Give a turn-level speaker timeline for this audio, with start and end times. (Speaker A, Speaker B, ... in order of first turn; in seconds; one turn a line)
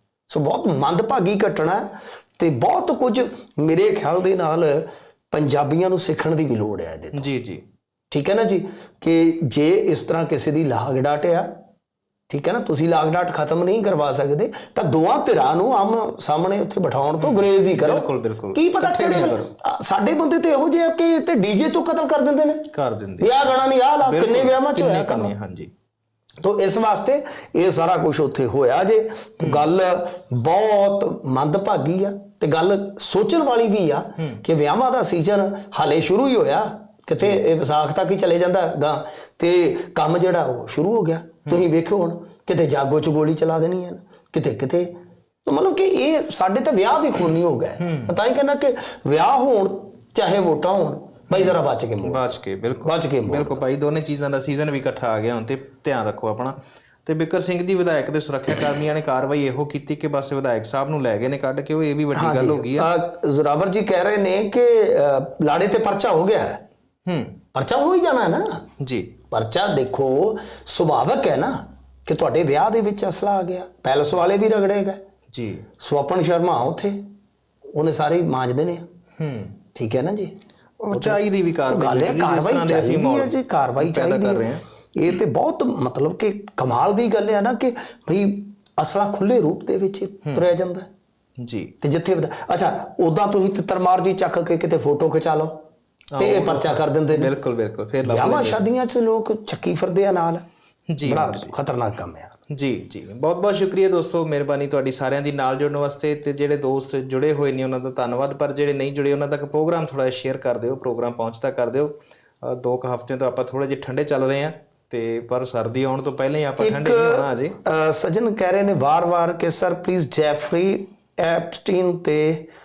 Speaker A: 0.3-7.2
Speaker B: 7.1-7.6
Speaker A: 8.1-11.5
Speaker A: 12.3-22.7
Speaker B: 17.2-19.5
Speaker B: 22.7-25.7
Speaker A: 23.2-25.3
Speaker A: 26.4-44.9
Speaker B: 29.4-29.7
Speaker A: 45.4-52.3
Speaker B: 47.8-48.1
Speaker B: 51.3-62.9
Speaker A: 52.8-53.6
Speaker A: 62.1-66.6
Speaker B: 67.1-67.4
Speaker A: 67.5-68.7
Speaker B: 68.8-69.2
Speaker A: 69.3-75.0
Speaker B: 75.3-75.7
Speaker A: 75.8-77.0
Speaker A: 77.8-78.9
Speaker B: 79.2-79.6
Speaker A: 79.8-80.3
Speaker B: 80.8-84.6
Speaker A: 80.9-90.9
Speaker B: 91.4-91.7
Speaker A: 91.8-95.6
Speaker B: 96.1-98.7
Speaker A: 96.2-97.3
Speaker A: 98.0-100.4
Speaker B: 100.9-101.5
Speaker A: 101.0-102.3
Speaker B: 102.5-117.6
Speaker A: 116.6-122.5